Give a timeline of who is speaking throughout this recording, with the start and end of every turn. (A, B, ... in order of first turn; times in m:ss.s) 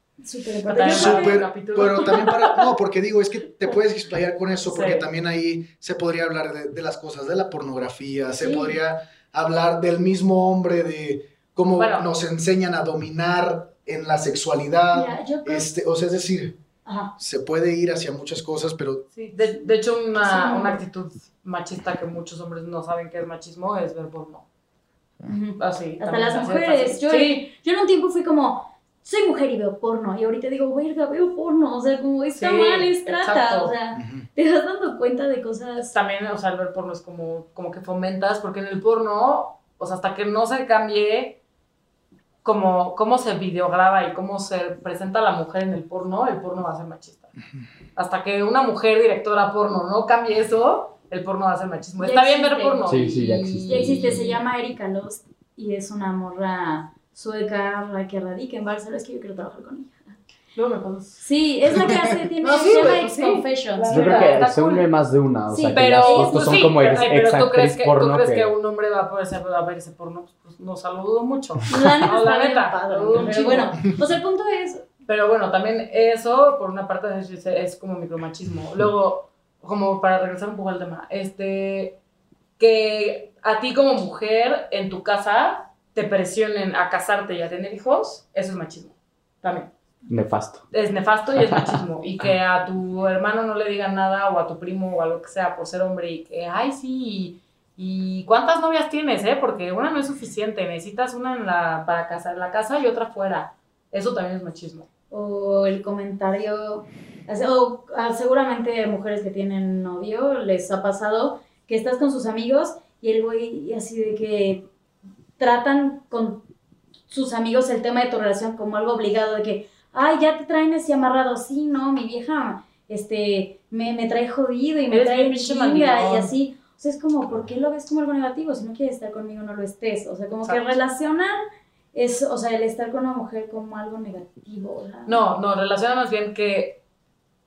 0:00.2-0:01.4 A
0:00.7-0:02.7 B
0:00.8-0:16.6 C
0:04.7-0:05.1 B
0:08.4-0:08.8 A
0:11.7-0:12.1 B
0:14.9-0:15.7 A
0:16.8-0:17.1 A
0:17.2-0:19.1 C
0:19.1-0:24.5 B
0:19.4-0:20.8 A
0:25.3-0:36.0 A
0:25.6-0:27.4 B
0:32.3-0:33.7 B
0:34.0-0:34.3 C
0:35.8-0:41.4 B
0:42.4-0:47.4 B
0:48.0-0:54.2 B
0:52.0-1:00.1 A
0:52.9-0:54.3 D
1:00.6-1:01.3 B
1:01.2-1:04.5 A
1:02.4-1:04.9 B
1:03.9-1:08.5 D
1:05.5-1:06.7 A
1:05.7-1:13.8 B
1:11.7-1:14.9 A
1:15.1-1:22.0 B
1:22.6-1:29.7 B
1:30.1-1:30.6 D
1:30.7-1:44.9 B
1:31.4-1:31.8 D
1:45.1-1:54.7 A
1:55.4-1:56.5 A
1:57.1-2:11.4 A
2:04.9-2:06.3 B
2:10.4-2:10.8 B
2:11.9-2:15.2 A
2:15.1-2:16.8 B